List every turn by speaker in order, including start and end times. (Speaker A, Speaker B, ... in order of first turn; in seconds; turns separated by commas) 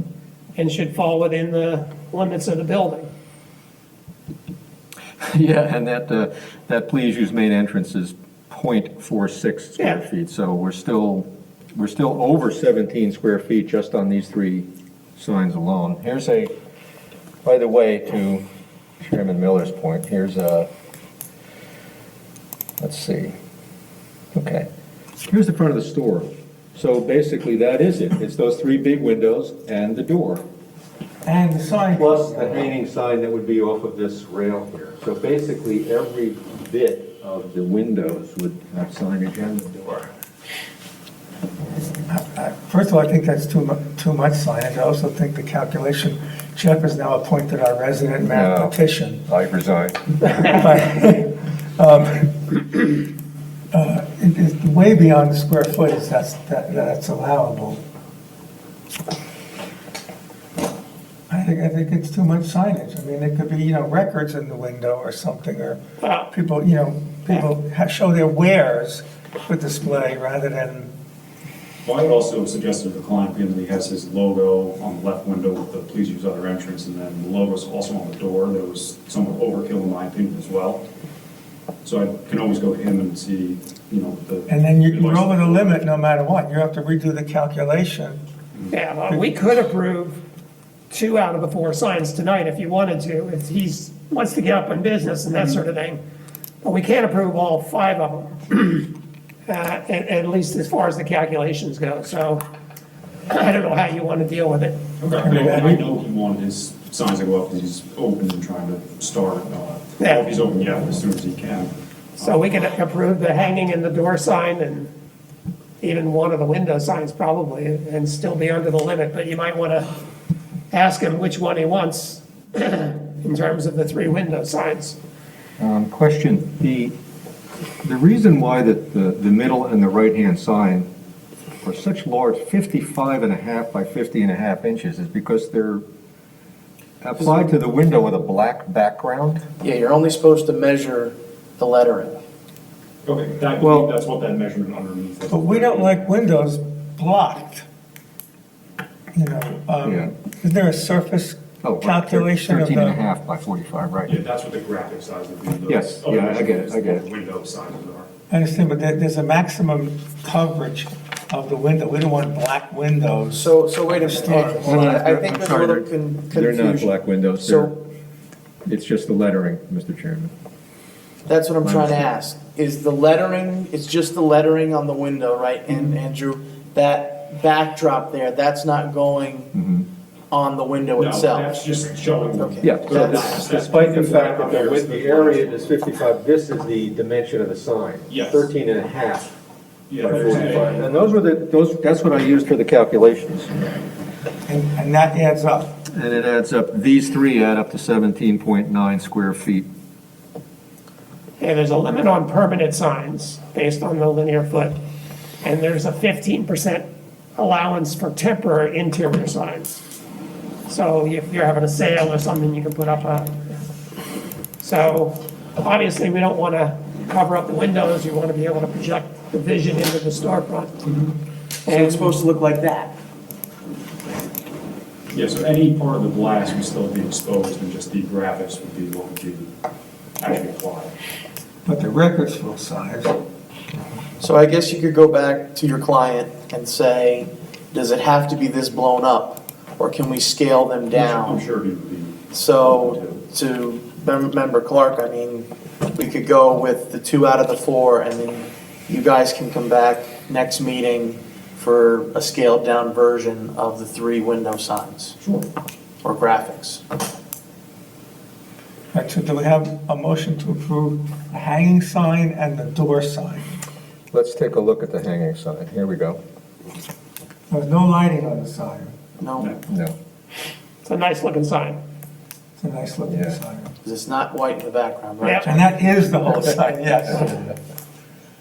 Speaker A: 0.6-3.1, Speaker B: 5.2-16.5, Speaker A: 9.8-10.0, Speaker B: 17.4-18.5, Speaker B: 19.0-20.7, Speaker B: 22.8-23.4, Speaker B: 24.3-24.7, Speaker B: 25.2-30.4, Speaker C: 31.2-32.8, Speaker B: 31.9-40.1, Speaker C: 42.1-49.2, Speaker B: 48.3-48.8, Speaker B: 49.3-50.1, Speaker C: 50.2-53.0, Speaker C: 53.7-57.8, Speaker C: 61.3-70.9, Speaker A: 66.0-66.3, Speaker D: 71.8-80.8, Speaker D: 81.8-85.8, Speaker C: 84.5-88.2, Speaker A: 88.7-90.2, Speaker C: 89.1-89.6, Speaker A: 90.9-96.0, Speaker A: 96.6-98.9, Speaker A: 99.5-102.4, Speaker A: 103.3-104.8, Speaker D: 105.0-112.4, Speaker C: 105.2-105.8, Speaker A: 110.0-110.3, Speaker A: 112.2-114.9, Speaker A: 115.8-119.9, Speaker A: 120.7-125.0, Speaker B: 125.6-126.9, Speaker B: 127.8-130.9, Speaker B: 131.6-135.8, Speaker B: 137.0-139.4, Speaker E: 139.6-142.2, Speaker D: 143.0-146.1, Speaker B: 143.6-143.9, Speaker C: 145.3-147.7, Speaker C: 149.1-153.0, Speaker B: 149.8-150.1, Speaker B: 151.6-154.1, Speaker D: 154.0-158.1, Speaker B: 155.7-157.0, Speaker C: 158.3-164.9, Speaker E: 163.3-167.8, Speaker B: 164.6-167.8, Speaker B: 168.7-170.3, Speaker E: 171.2-179.5, Speaker B: 171.6-172.1, Speaker D: 175.7-175.9, Speaker E: 180.3-181.6, Speaker D: 180.9-185.7, Speaker E: 182.2-183.3, Speaker B: 182.6-189.3, Speaker D: 188.1-188.5, Speaker D: 189.9-191.1, Speaker B: 190.0-193.5, Speaker C: 194.4-195.7, Speaker B: 195.9-199.7, Speaker A: 201.4-204.8, Speaker A: 205.4-209.8, Speaker A: 210.7-213.3, Speaker A: 214.6-220.7, Speaker D: 220.8-221.1, Speaker A: 221.7-222.2, Speaker E: 221.7-222.9, Speaker D: 225.1-229.5, Speaker D: 230.2-230.9, Speaker C: 231.6-233.2, Speaker E: 234.2-241.4, Speaker D: 240.9-243.2, Speaker E: 242.3-255.2, Speaker E: 256.0-256.8, Speaker C: 258.9-263.6, Speaker B: 264.1-266.2, Speaker C: 267.5-268.9, Speaker E: 269.2-269.5, Speaker B: 269.7-269.9, Speaker A: 270.8-271.8, Speaker C: 272.6-273.7, Speaker B: 273.1-273.4, Speaker E: 273.8-275.8, Speaker A: 275.2-275.5, Speaker C: 275.4-277.6